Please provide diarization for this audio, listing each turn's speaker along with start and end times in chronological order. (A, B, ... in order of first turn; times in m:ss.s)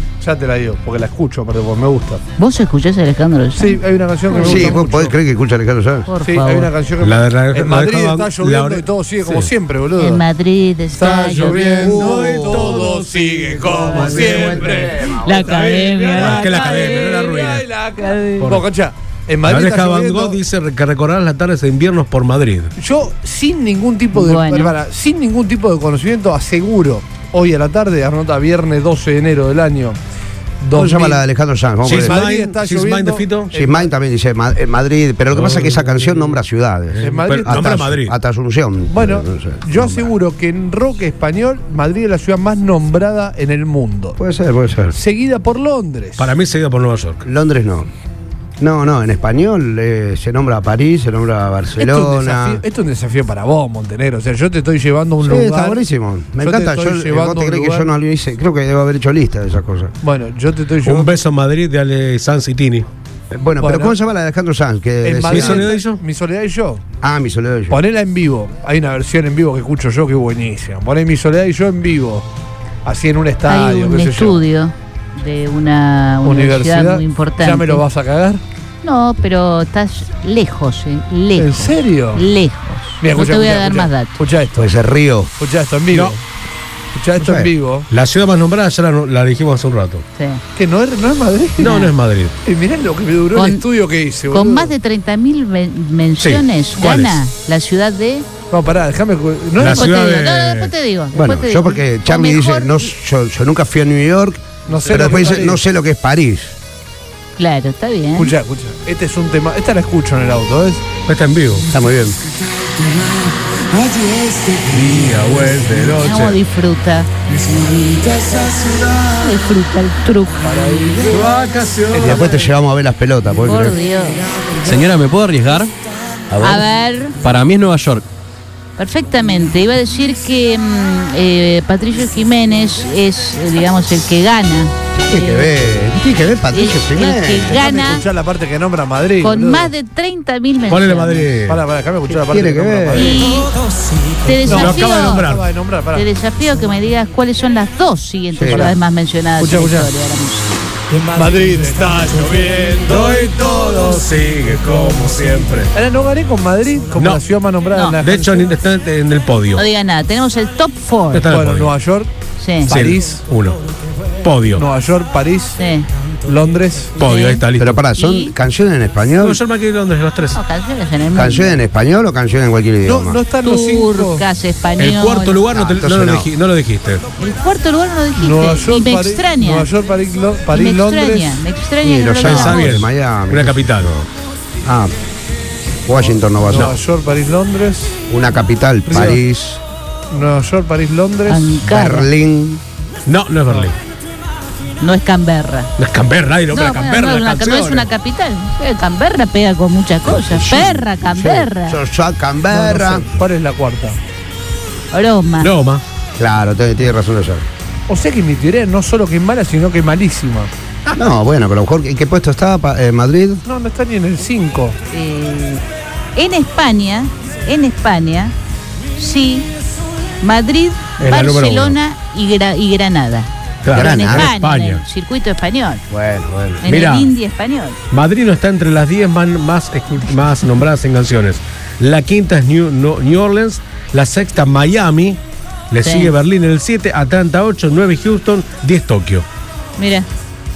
0:00.2-0:02.2 A
0:02.4-0:04.8 B
0:03.6-0:05.1 A
0:04.3-0:06.1 C
0:06.0-0:06.7 B
0:06.2-0:10.2 A
0:07.0-0:09.5 D
0:10.0-0:12.0 B
0:10.9-0:20.4 A
0:11.8-0:14.8 D
0:11.8-0:12.9 C
0:13.6-0:15.6 C
0:15.2-0:17.0 B
0:15.4-0:17.7 D
0:18.3-0:18.7 D
0:19.4-0:22.7 D
0:22.8-0:30.0 A
0:24.1-0:24.7 B
0:30.6-0:31.2 A
0:30.7-0:32.2 C
0:31.8-0:33.5 D
0:31.9-0:33.9 A
0:33.5-0:40.1 C
0:35.3-0:36.4 D
0:36.9-0:38.2 D
0:37.0-0:37.7 A
0:38.9-0:44.2 A
0:44.2-0:45.0 C
0:44.9-0:46.3 A
0:46.2-0:47.2 D
0:47.2-0:47.9 C
0:48.6-0:52.6 C
0:51.8-0:55.8 A
0:55.2-0:59.9 C
0:56.4-0:57.9 A
1:00.0-1:01.2 A
1:00.8-1:02.8 D
1:03.3-1:05.7 C
1:03.6-1:04.0 A
1:05.0-1:06.8 A
1:05.2-1:06.0 D
1:07.0-1:07.8 C
1:07.7-1:12.2 A
1:12.8-1:14.4 A
1:13.5-1:17.8 B
1:16.2-1:18.4 A
1:18.8-1:24.2 B
1:21.4-1:22.3 A
1:23.0-1:24.7 A
1:24.6-1:25.3 C
1:25.4-1:26.2 A
1:25.9-1:26.2 D
1:26.9-1:27.9 A
1:27.2-1:27.5 C
1:27.9-1:30.0 D
1:30.5-1:31.9 A
1:31.6-1:32.3 D
1:31.6-1:31.9 B
1:32.4-1:34.7 A
1:33.3-1:33.6 B
1:34.3-1:38.2 B
1:36.2-1:37.2 D
1:38.5-1:40.0 A
1:39.6-1:40.7 D
1:39.6-1:42.9 B
1:41.1-1:46.6 C
1:44.6-1:45.6 A
1:47.4-1:48.3 B
1:48.1-1:50.8 A
1:51.1-1:51.7 D
1:51.7-1:52.2 C
1:54.6-1:56.4 D
1:56.0-1:57.1 B
1:57.9-2:00.8 B
2:00.4-2:01.3 A
2:01.0-2:02.3 D
2:01.9-2:03.8 C
2:02.1-2:02.4 A
2:03.4-2:04.3 B
2:04.6-2:05.7 E
2:06.3-2:06.6 C
2:06.4-2:07.2 B
2:07.2-2:08.0 E
2:08.8-2:15.5 B
2:15.0-2:17.6 C
2:16.5-2:18.0 B
2:17.4-2:19.7 A
2:19.2-2:21.3 B
2:20.7-2:21.6 D
2:21.4-2:23.3 A
2:22.2-2:23.2 C
2:22.9-2:23.5 B
2:24.2-2:25.3 B
2:24.4-2:26.1 A
2:24.5-2:25.5 D
2:25.9-2:30.5 B
2:28.3-2:28.7 C
2:28.5-2:28.8 A
2:29.4-2:29.9 A
2:31.1-2:33.3 A
2:32.8-2:35.7 D
2:35.7-2:38.5 A
2:36.9-2:37.2 D
2:37.9-2:39.6 D
2:39.5-2:41.3 B
2:41.1-2:41.7 D
2:41.2-2:42.1 A
2:42.4-2:42.7 B
2:42.6-2:43.2 A
2:42.7-2:43.6 D
2:44.2-2:44.6 D
2:44.5-2:45.6 A
2:45.6-2:45.9 B
2:46.2-2:47.0 A
2:47.0-2:47.4 B
2:47.0-2:47.8 D
2:47.6-2:49.4 C
2:47.9-2:48.3 B
2:49.2-2:50.4 D
2:50.3-2:51.6 B
2:51.1-2:53.2 C
2:52.8-2:54.2 A
2:53.4-2:55.5 B
2:54.8-2:57.0 D
2:55.5-2:56.3 C
2:57.2-2:59.7 B
2:58.2-3:01.4 A
3:00.5-3:02.7 B
3:01.8-3:04.1 C
3:02.2-3:03.9 D
3:04.6-3:04.9 C
3:05.8-3:06.8 C
3:06.5-3:08.0 A
3:08.1-3:09.6 C
3:08.9-3:09.2 A
3:10.1-3:11.5 A
3:11.3-3:12.1 B
3:11.6-3:12.6 C
3:13.0-3:13.7 D
3:14.8-3:15.7 B
3:15.8-3:17.9 D
3:16.5-3:21.8 B
3:20.0-3:23.1 C
3:22.5-3:24.0 A
3:24.9-3:25.5 B
3:25.4-3:25.8 D
3:26.2-3:27.4 C
3:27.9-3:30.5 A
3:31.0-3:33.4 C
3:33.4-3:34.8 A
3:34.9-3:35.6 B
3:36.2-3:38.3 B
3:39.0-3:39.5 B
3:40.2-3:45.8 B
3:41.0-3:41.8 D
3:43.6-3:44.8 D
3:43.7-3:44.3 C
3:45.9-3:46.6 C
3:46.6-3:47.8 B
3:46.6-3:47.1 D
3:47.9-3:55.2 D
3:55.7-3:59.2 D
3:55.8-3:56.1 B
3:59.8-4:00.1 B